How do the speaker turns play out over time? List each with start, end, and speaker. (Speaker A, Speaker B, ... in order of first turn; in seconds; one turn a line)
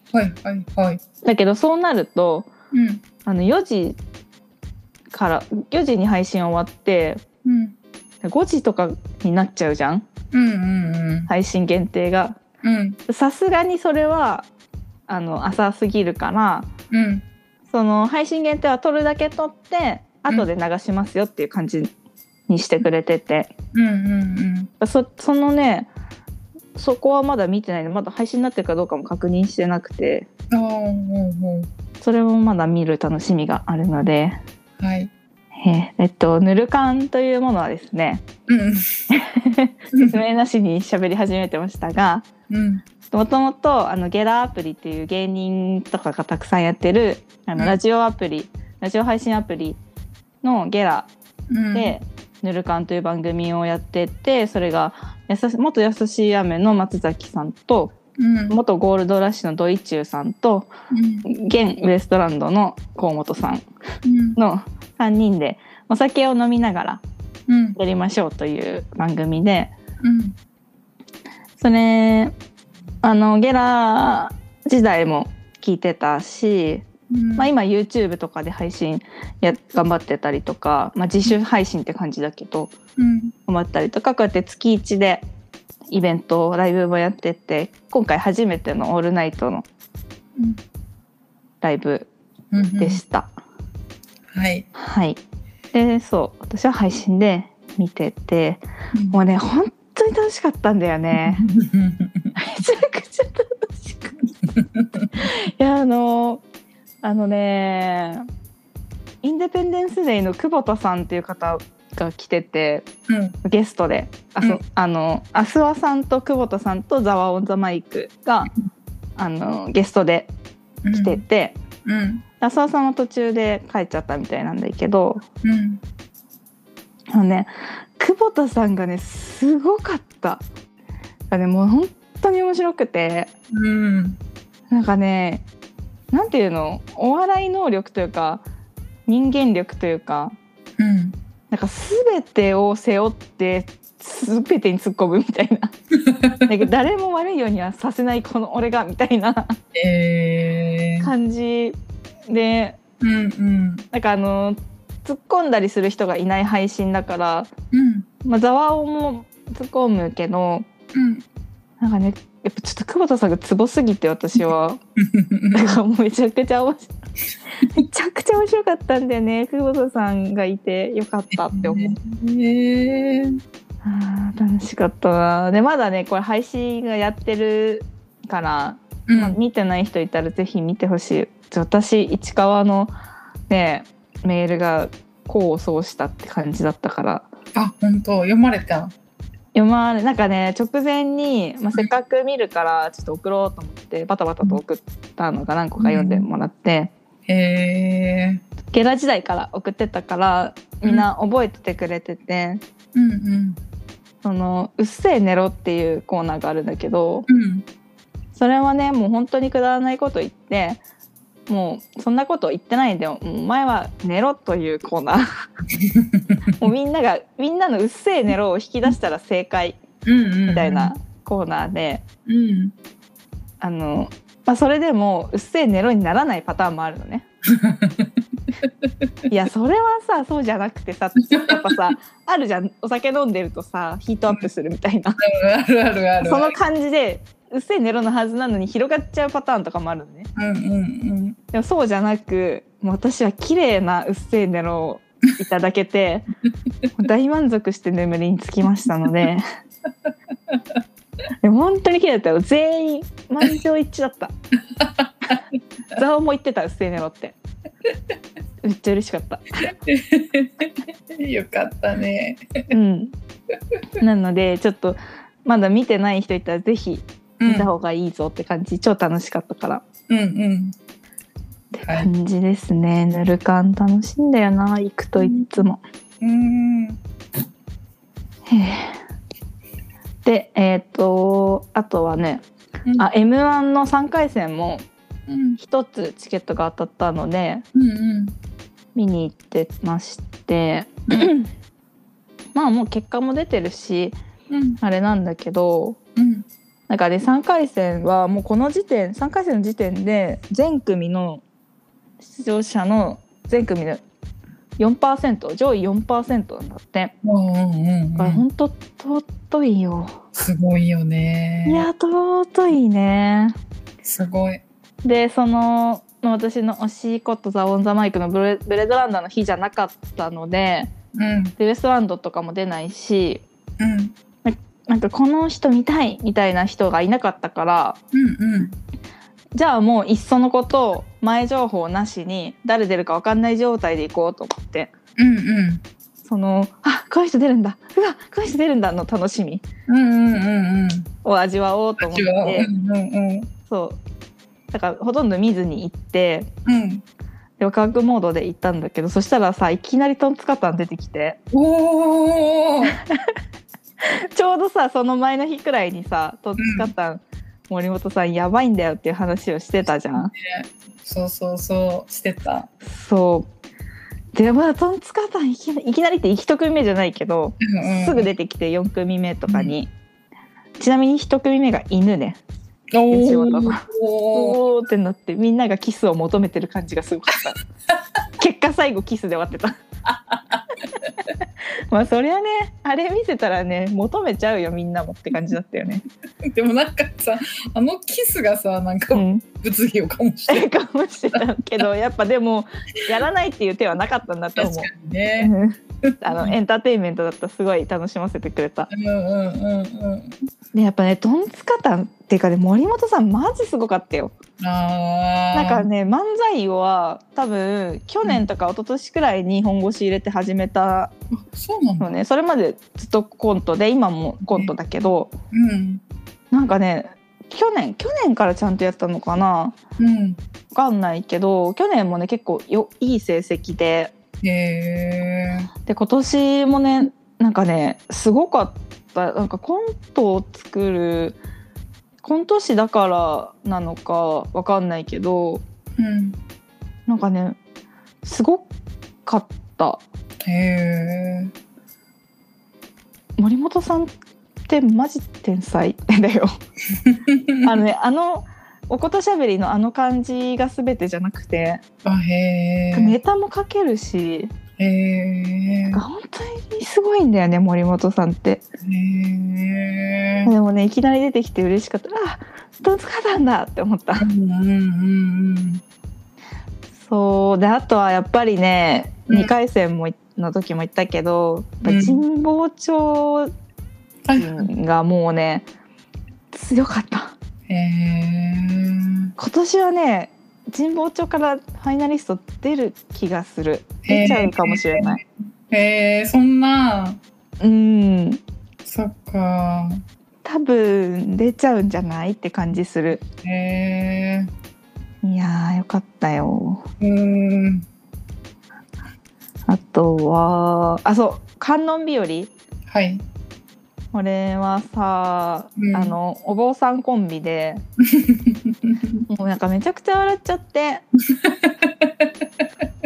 Speaker A: 0.1-1.0
Speaker B: 1.2-2.5
Speaker A: 2.7-3.0
Speaker B: 3.2-4.0
Speaker B: 5.1-7.2
Speaker A: 7.4-7.8
Speaker B: 8.2-10.1
Speaker A: 10.3-11.3
Speaker B: 11.3-12.4
Speaker A: 12.6-13.0
Speaker B: 13.1-14.5
Speaker B: 15.1-16.7
Speaker A: 16.9-17.2
Speaker B: 17.7-21.9
Speaker B: 22.5-23.5
Speaker A: 23.7-24.7
Speaker B: 24.8-25.9
Speaker B: 26.8-30.3
Speaker A: 30.5-31.7
Speaker B: 32.0-34.4
Speaker A: 34.8-35.1
Speaker B: 35.5-38.2
Speaker A: 38.5-39.0
Speaker B: 39.1-42.2
Speaker A: 39.9-40.2
Speaker A: 42.5-42.8
Speaker B: 43.1-49.8
Speaker B: 50.4-51.1
Speaker A: 51.5-51.9
Speaker B: 51.7-57.9
Speaker A: 58.2-58.6
Speaker B: 58.5-60.7
Speaker A: 60.9-61.2
Speaker B: 61.2-63.6
Speaker A: 64.0-64.4
Speaker B: 64.3-67.0
Speaker A: 67.5-67.8
Speaker B: 67.8-69.7
Speaker A: 70.0-70.3
Speaker B: 71.6-72.3
Speaker B: 73.0-76.8
Speaker A: 77.1-77.5
Speaker B: 77.4-82.7
Speaker A: 83.0-83.3
Speaker B: 83.5-85.2
Speaker B: 85.9-89.6
Speaker A: 90.3-90.6
Speaker B: 91.6-92.1
Speaker A: 92.5-93.0
Speaker B: 92.8-93.3
Speaker A: 94.3-94.7
Speaker B: 94.7-95.2
Speaker B: 95.7-101.5
Speaker A: 101.2-102.3
Speaker B: 102.3-104.2
Speaker A: 104.5-105.2
Speaker B: 105.2-106.4
Speaker B: 107.0-108.3
Speaker B: 109.2-112.9
Speaker A: 113.1-113.3
Speaker B: 113.4-118.5
Speaker B: 119.2-120.3
Speaker A: 120.8-121.2
Speaker B: 120.9-121.5
Speaker A: 121.8-122.2
Speaker B: 122.4-125.2
Speaker A: 125.4-125.8
Speaker B: 127.1-130.4
Speaker B: 131.3-133.3
Speaker A: 133.5-134.2
Speaker B: 134.7-135.4
Speaker B: 136.1-138.4
Speaker B: 139.1-140.3
Speaker A: 140.8-141.2
Speaker B: 141.5-145.7
Speaker A: 146.0-146.4
Speaker B: 146.4-149.6
Speaker A: 149.7-151.1
Speaker B: 151.0-151.8
Speaker B: 152.3-152.8
Speaker A: 153.0-153.8
Speaker B: 153.9-157.5
Speaker A: 157.7-158.1
Speaker B: 158.2-160.7
Speaker A: 160.9-161.2
Speaker B: 161.8-164.8
Speaker A: 165.0-165.8
Speaker B: 165.5-166.9
Speaker B: 167.7-172.0
Speaker A: 171.5-173.4
Speaker B: 173.8-182.9
Speaker A: 179.1-179.4
Speaker B: 183.5-187.3
Speaker A: 187.5-188.9
Speaker B: 189.5-196.9
Speaker A: 195.8-196.3
Speaker A: 197.3-198.4
Speaker B: 198.7-202.6
Speaker A: 202.9-203.6
Speaker B: 204.2-207.3
Speaker A: 207.3-207.6
Speaker B: 208.3-210.8
Speaker B: 211.5-215.4
Speaker A: 215.8-216.3
Speaker B: 216.6-219.8
Speaker A: 220.0-220.9
Speaker B: 220.5-222.0
Speaker A: 222.2-222.7
Speaker B: 223.6-227.2
Speaker A: 227.5-228.7
Speaker B: 229.3-235.2
Speaker A: 231.3-231.7
Speaker A: 235.2-236.5
Speaker B: 236.2-240.3
Speaker A: 240.3-241.4
Speaker B: 241.5-246.3
Speaker B: 246.9-249.4
Speaker B: 251.4-254.3
Speaker A: 254.8-255.4
Speaker B: 255.9-257.3
Speaker B: 258.6-259.7
Speaker A: 259.6-262.7
Speaker B: 262.7-263.1
Speaker B: 264.0-269.8
Speaker A: 267.4-267.7
Speaker A: 270.1-270.8
Speaker A: 271.7-272.1
Speaker B: 271.8-275.8
Speaker A: 275.2-275.5
Speaker A: 276.2-277.0
Speaker B: 278.5-279.0
Speaker B: 280.2-282.4
Speaker B: 283.0-284.9
Speaker A: 285.3-285.6
Speaker B: 285.6-287.6
Speaker A: 287.7-288.3
Speaker B: 288.9-291.5
Speaker B: 292.5-294.2
Speaker A: 294.5-294.8
Speaker B: 294.8-296.0
Speaker A: 296.1-296.4
Speaker B: 296.9-301.4
Speaker B: 302.2-304.0
Speaker B: 304.8-307.1
Speaker A: 307.2-308.4
Speaker B: 308.2-310.2
Speaker A: 310.3-311.9
Speaker B: 311.6-313.6
Speaker A: 314.0-314.6
Speaker B: 315.0-320.9
Speaker A: 321.1-321.5
Speaker B: 321.6-323.4
Speaker A: 323.8-324.1
Speaker B: 324.4-328.0
Speaker A: 328.1-328.8
Speaker B: 329.5-334.9
Speaker A: 335.2-335.8
Speaker B: 336.2-339.6
Speaker A: 339.9-341.1
Speaker B: 341.2-342.7
Speaker A: 342.0-343.5
Speaker B: 343.7-344.0
Speaker B: 344.7-346.5
Speaker A: 346.6-347.0
Speaker B: 347.6-351.4
Speaker A: 351.5-353.0
Speaker B: 352.9-353.2
Speaker B: 354.0-360.3
Speaker A: 356.6-356.9
Speaker A: 360.1-362.7
Speaker B: 362.8-363.5
Speaker B: 364.3-369.9
Speaker A: 367.6-368.3
Speaker B: 370.8-372.4
Speaker A: 372.9-374.6
Speaker B: 373.1-377.6
Speaker B: 378.4-379.8
Speaker A: 380.1-381.1
Speaker B: 381.9-386.0
Speaker A: 386.4-390.7
Speaker B: 389.1-389.4
Speaker B: 390.5-398.9
Speaker A: 394.6-395.5
Speaker A: 396.0-396.5
Speaker A: 398.9-400.4
Speaker B: 400.7-404.3
Speaker A: 404.6-405.9
Speaker B: 405.5-411.1
Speaker A: 411.3-412.1
Speaker B: 412.0-415.3
Speaker A: 415.5-416.0
Speaker B: 416.5-419.8
Speaker A: 420.0-420.4
Speaker B: 420.7-424.1
Speaker A: 424.4-425.7
Speaker B: 425.9-431.4
Speaker B: 432.2-435.6
Speaker A: 436.0-436.4
Speaker B: 437.1-437.6
Speaker B: 438.2-438.7
Speaker B: 439.2-440.0
Speaker A: 440.4-441.5
Speaker B: 443.4-444.1
Speaker B: 444.7-446.6
Speaker A: 447.0-447.7
Speaker B: 447.6-451.8
Speaker A: 452.0-453.1
Speaker B: 452.9-454.5
Speaker A: 454.8-456.0
Speaker B: 455.9-458.6
Speaker A: 458.8-460.5
Speaker B: 460.4-464.3
Speaker A: 464.2-465.8
Speaker B: 467.0-473.5
Speaker A: 471.8-472.2
Speaker A: 474.2-474.7
Speaker B: 474.4-475.6
Speaker B: 476.5-477.4
Speaker A: 477.7-479.3
Speaker B: 479.4-485.2
Speaker A: 484.0-485.2
Speaker A: 485.7-487.2
Speaker B: 487.6-488.4
Speaker A: 488.8-490.0
Speaker B: 490.4-493.2
Speaker A: 493.4-494.5
Speaker B: 495.2-496.8
Speaker A: 497.0-497.9
Speaker B: 499.7-502.5
Speaker A: 502.9-503.2
Speaker B: 504.1-507.8
Speaker A: 505.8-506.1
Speaker A: 508.1-509.2
Speaker B: 509.3-511.0
Speaker A: 511.3-512.4